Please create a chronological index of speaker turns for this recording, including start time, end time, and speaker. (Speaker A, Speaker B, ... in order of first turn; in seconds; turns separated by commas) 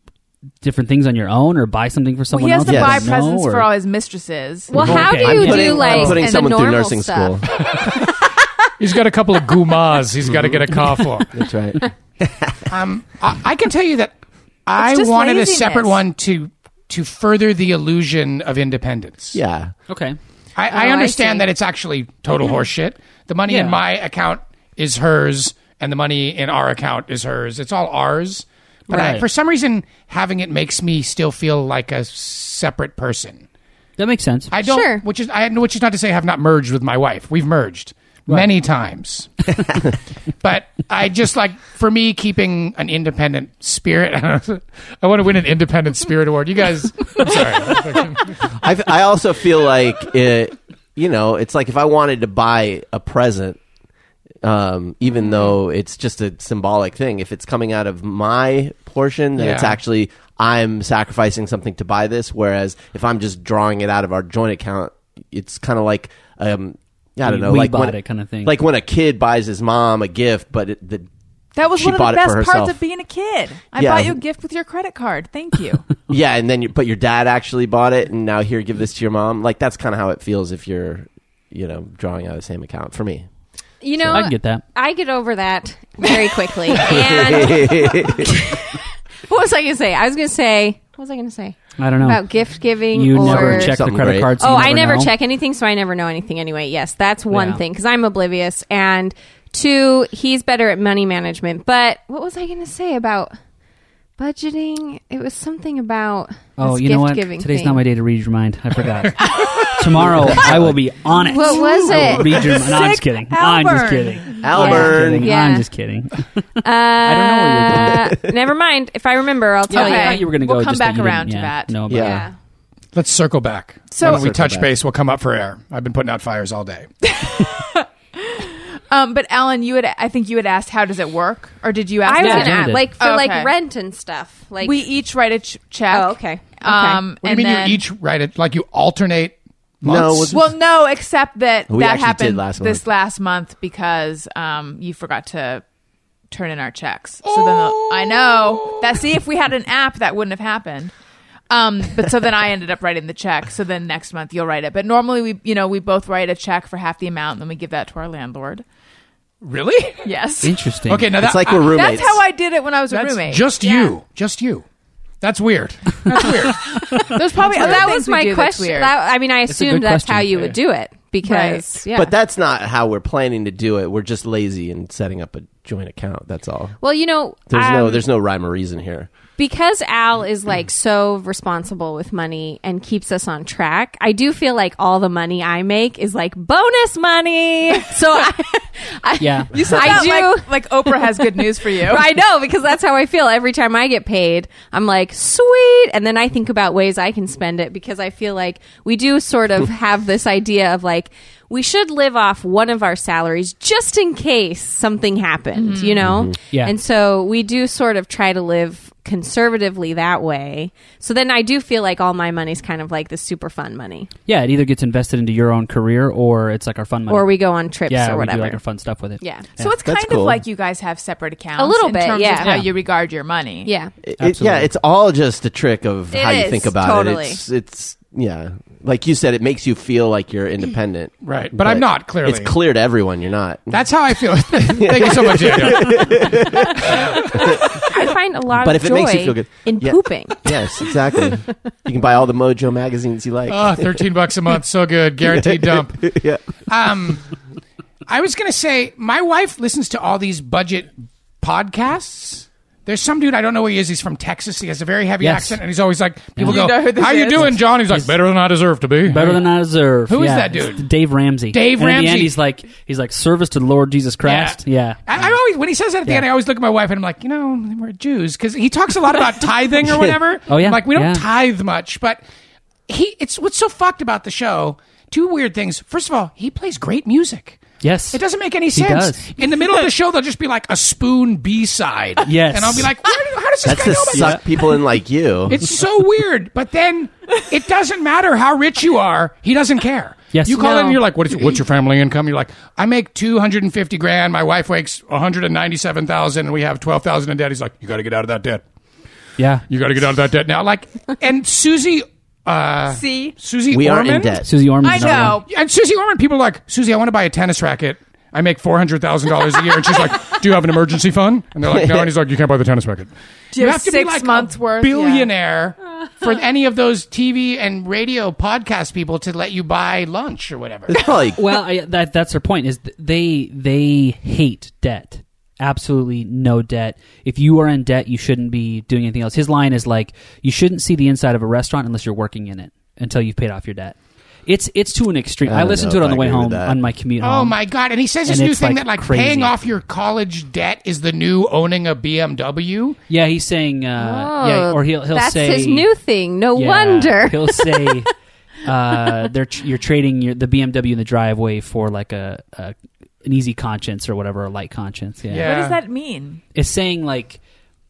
Speaker A: 0.6-3.7, Speaker B: 2.3-4.7, Speaker C: 2.6-3.0, Speaker D: 4.7-7.4, Speaker A: 4.8-6.1, Speaker C: 4.8-7.5, Speaker B: 5.9-6.5, Speaker E: 7.6-8.0, Speaker E: 8.8-11.4, Speaker C: 11.3-12.6, Speaker E: 12.7-14.1, Speaker E: 14.7-19.4, Speaker D: 14.8-16.0, Speaker C: 19.3-19.7, Speaker A: 19.9-20.2, Speaker E: 20.6-33.4, Speaker D: 20.7-21.5, Speaker A: 23.5-23.8, Speaker A: 28.9-29.2, Speaker A: 34.0-34.5, Speaker E: 34.5-39.9, Speaker D: 34.6-35.0, Speaker E: 40.4-48.3, Speaker C: 48.6-53.6, Speaker C: 54.4-71.1, Speaker E: 59.4-59.8, Speaker A: 67.2-68.6, Speaker B: 71.5-75.8, Speaker C: 71.7-72.8, Speaker C: 73.7-74.2, Speaker C: 76.1-83.2, Speaker D: 83.8-103.3, Speaker C: 84.0-84.3, Speaker A: 84.1-84.6, Speaker C: 86.7-88.4, Speaker A: 91.8-92.2, Speaker A: 92.9-95.1, Speaker C: 93.1-94.3, Speaker A: 97.3-97.6, Speaker D: 104.2-107.8, Speaker A: 106.6-116.3, Speaker E: 109.2-109.8, Speaker C: 110.0-110.8, Speaker D: 111.2-112.3, Speaker B: 112.5-114.4, Speaker C: 114.4-115.3, Speaker D: 114.5-115.7, Speaker D: 116.6-120.2, Speaker A: 117.0-118.1, Speaker C: 117.7-118.3, Speaker B: 119.7-121.7, Speaker A: 119.7-122.2, Speaker C: 121.9-122.3, Speaker D: 121.9-122.3, Speaker E: 122.9-126.9, Speaker B: 123.9-124.2, Speaker C: 124.0-124.7, Speaker B: 127.0-133.5, Speaker D: 132.0-134.8, Speaker A: 132.2-132.9, Speaker B: 134.6-137.8, Speaker D: 135.9-137.1, Speaker E: 137.2-140.4, Speaker C: 139.8-140.5, Speaker B: 140.3-145.6, Speaker C: 141.7-142.8, Speaker B: 146.3-150.9, Speaker E: 147.2-148.9, Speaker B: 151.5-158.6, Speaker E: 159.4-160.1, Speaker B: 160.0-160.6, Speaker A: 160.4-161.1, Speaker E: 160.9-161.9, Speaker C: 161.2-162.2, Speaker B: 161.6-163.4, Speaker E: 162.9-164.6, Speaker D: 163.6-164.0, Speaker E: 165.2-167.7, Speaker B: 167.1-168.9, Speaker D: 167.3-172.1, Speaker A: 169.5-170.6, Speaker B: 171.2-171.8, Speaker C: 171.9-176.8, Speaker D: 176.8-178.0, Speaker C: 177.5-179.1, Speaker D: 179.4-214.1, Speaker A: 189.2-189.7, Speaker B: 189.5-192.1, Speaker B: 205.5-206.0, Speaker C: 206.0-206.3, Speaker A: 214.3-219.7, Speaker D: 217.1-218.6, Speaker D: 219.2-219.4, Speaker B: 219.6-223.7, Speaker C: 219.8-220.4, Speaker D: 221.6-222.6, Speaker A: 222.4-222.7, Speaker D: 223.6-223.9, Speaker C: 224.0-233.8, Speaker A: 224.2-224.7, Speaker D: 226.1-227.4, Speaker E: 231.2-232.5, Speaker E: 233.7-237.5, Speaker C: 234.7-237.6, Speaker D: 237.7-240.9, Speaker C: 238.6-244.0, Speaker E: 243.5-246.1, Speaker C: 245.3-246.4, Speaker E: 246.7-247.2, Speaker E: 248.1-259.5, Speaker A: 255.2-255.6, Speaker A: 256.4-258.2, Speaker B: 256.4-257.6, Speaker A: 259.1-265.0, Speaker E: 260.1-260.9, Speaker E: 261.5-262.4, Speaker E: 264.2-272.2, Speaker A: 270.5-271.2, Speaker E: 272.9-284.7, Speaker A: 277.8-279.3, Speaker A: 282.2-282.9, Speaker C: 283.6-285.7, Speaker A: 284.1-284.4, Speaker E: 285.5-298.6, Speaker A: 290.3-291.0, Speaker A: 299.4-299.6, Speaker E: 299.7-304.4, Speaker B: 302.9-303.4, Speaker C: 303.7-304.5, Speaker A: 304.4-305.4, Speaker B: 304.8-305.5, Speaker E: 305.2-321.0, Speaker C: 311.7-312.1, Speaker B: 313.5-315.3, Speaker C: 320.9-321.4, Speaker A: 321.4-337.6, Speaker C: 335.4-336.8, Speaker E: 337.2-343.0, Speaker A: 338.2-339.5, Speaker A: 343.1-345.9, Speaker D: 344.0-348.0, Speaker A: 346.5-348.1, Speaker A: 348.6-355.5, Speaker E: 355.3-355.8, Speaker B: 355.4-356.4, Speaker A: 356.5-357.4